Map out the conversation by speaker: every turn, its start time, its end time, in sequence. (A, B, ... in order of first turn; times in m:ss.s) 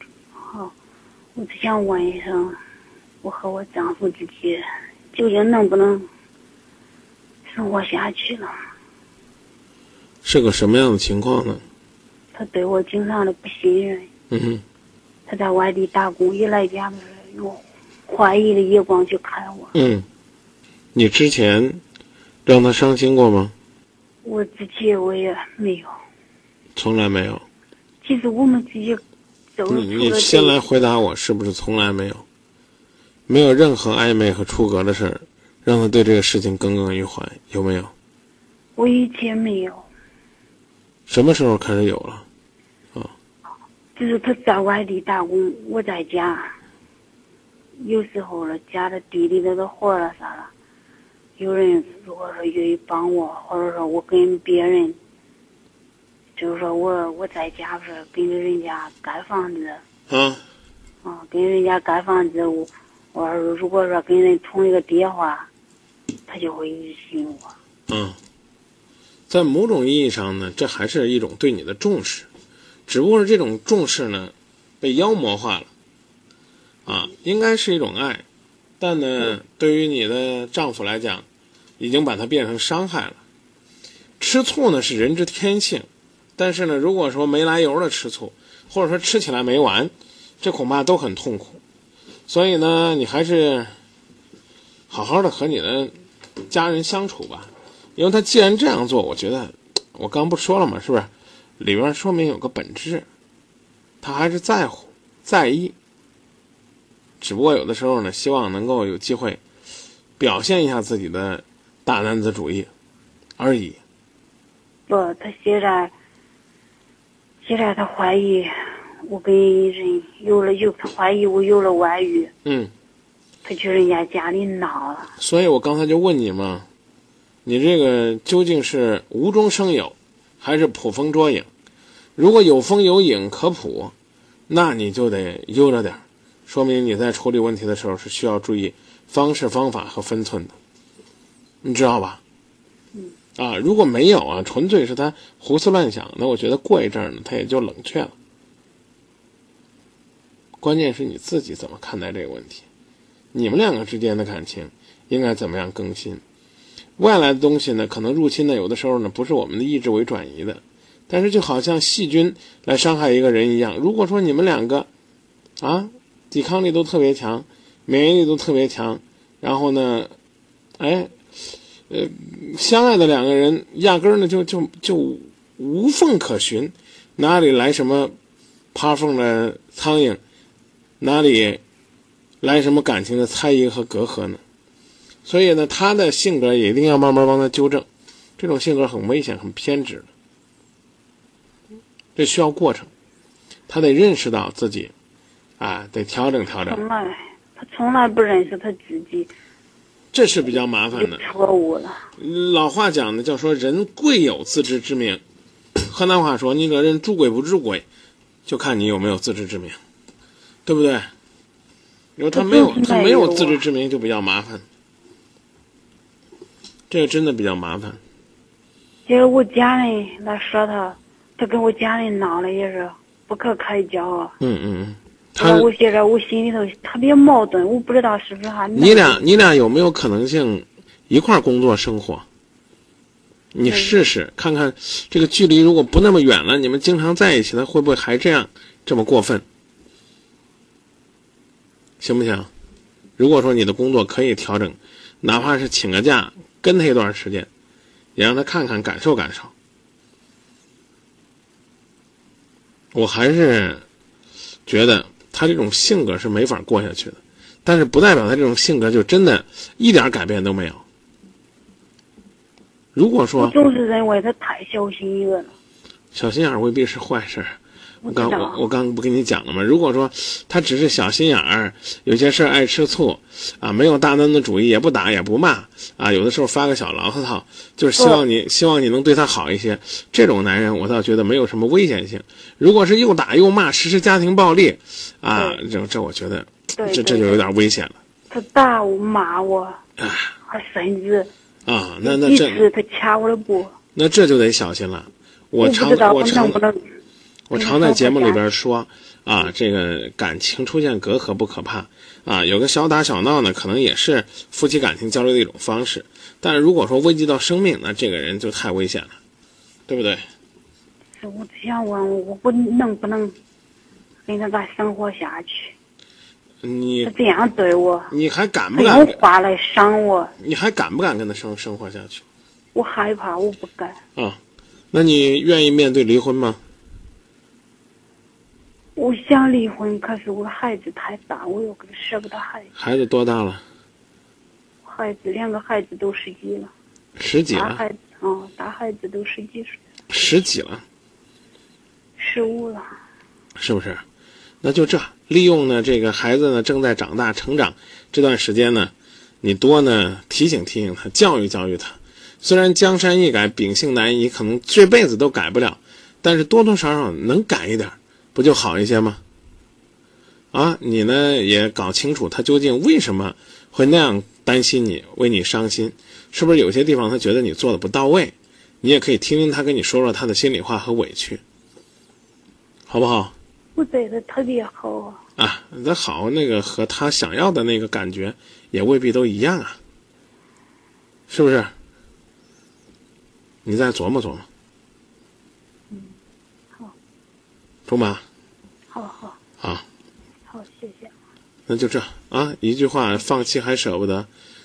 0:00.5-0:00.7 A
0:01.3-0:02.6 A
0:03.2-0:06.1 A
0:07.5-0:08.5 A
0:10.2-0:11.6 B
0:12.3-0:14.1 A
0:14.3-0:14.6 B
0:15.2-0:19.7 A
0:19.7-0:20.0 B
0:20.9-0:21.8 B
0:22.5-0:23.5 B
0:24.2-0:25.9 A
0:26.8-0:27.4 B
0:28.0-0:29.0 A
0:29.6-0:30.6 A
0:29.7-0:32.2 B
0:33.3-0:37.9 B
0:38.8-0:39.8 A
0:41.1-0:42.2 B
0:44.0-0:46.5 A
0:47.8-0:50.5 A
0:51.4-0:55.0 A
0:56.4-0:59.8 A
1:00.1-1:00.4 B
1:01.0-1:05.5 A
1:06.3-1:07.6 A
1:07.9-1:08.2 B
1:09.3-1:12.3 B
1:12.9-1:15.7 B
1:16.8-1:18.2 B
1:18.8-1:21.2 B
1:21.8-1:23.2 B
1:24.2-1:31.6 B
1:32.3-1:33.7 B
1:34.9-1:35.9 B
1:36.4-1:43.0 B
1:44.0-1:45.7 B
1:47.2-1:49.4 B
1:50.2-1:52.7 B
1:53.4-1:53.8 B
1:54.9-1:55.9 A
1:57.4-1:58.5 A
1:59.0-2:02.3 A
2:02.4-2:02.7 B
2:03.4-2:05.1 A
2:05.2-2:06.7 B
2:07.4-2:11.5 B
2:12.2-2:13.9 B
2:14.5-2:20.5 B
2:21.6-2:22.2 B
2:23.4-2:28.1 B
2:30.6-2:32.6 B
2:33.3-2:36.2 B
2:37.0-2:44.9 B
2:45.6-2:50.1 B
2:50.8-2:51.2 B
2:51.9-2:58.1 B
2:58.7-3:00.2 B
3:01.0-3:01.6 B
3:02.4-3:04.4 B
3:05.2-3:07.9 B
3:08.4-3:10.1 B
3:12.2-3:12.9 B
3:13.7-3:14.9 B
3:15.6-3:16.8 B
3:16.6-3:19.3 A
3:20.1-3:21.2 B
3:20.9-3:22.1 A
3:22.2-3:25.2 B
3:25.8-3:27.8 B
3:28.4-3:29.8 B
3:30.7-3:31.1 B
3:32.2-3:34.6 B
3:32.3-3:33.6 A
3:36.9-3:38.0 B
3:39.1-3:44.3 A
3:44.4-3:45.7 B
3:45.4-3:49.4 A
3:48.8-3:52.2 B
3:53.5-3:59.4 B
3:53.7-3:54.1 A
4:02.0-4:02.5 B
4:03.2-4:07.5 B
4:08.2-4:09.5 B
4:12.9-4:13.8 B
4:14.7-4:20.8 B
4:23.0-4:23.6 B
4:23.4-4:25.5 A
4:26.1-4:48.0 B
4:28.0-4:28.6 A
4:45.4-4:45.6 A
4:46.8-4:47.5 A
4:48.3-4:49.8 A
4:50.0-4:50.4 B
4:50.5-4:51.3 A
4:51.7-4:52.6 B
4:52.0-4:53.7 A
4:54.0-4:56.6 B
4:55.6-4:56.8 A
4:57.5-5:09.2 B
4:57.5-4:58.4 A
5:09.9-5:10.2 B
5:11.2-5:13.4 A
5:14.3-5:15.8 A
5:16.6-5:17.1 B
5:17.0-5:18.1 A
5:18.1-5:19.2 B
5:18.8-5:20.3 A
5:20.4-5:22.2 B
5:22.7-5:24.0 A
5:24.9-5:26.6 B
5:29.0-5:32.7 A
5:32.8-5:33.6 B
5:34.8-5:36.7 A
5:37.2-5:37.8 B
5:37.5-5:39.8 A
5:40.1-5:40.8 B
5:42.2-5:42.9 A
5:43.6-5:44.0 B
5:44.6-5:59.2 B
6:00.5-6:11.4 B
6:12.9-6:13.3 B
6:13.8-6:15.2 A
6:15.4-6:19.8 B
6:21.3-6:21.7 B
6:23.6-6:24.5 B
6:25.9-6:26.2 A
6:27.9-6:28.2 B
6:28.9-6:29.4 A
6:29.6-6:29.9 B
6:30.5-6:31.1 A
6:31.7-6:34.3 B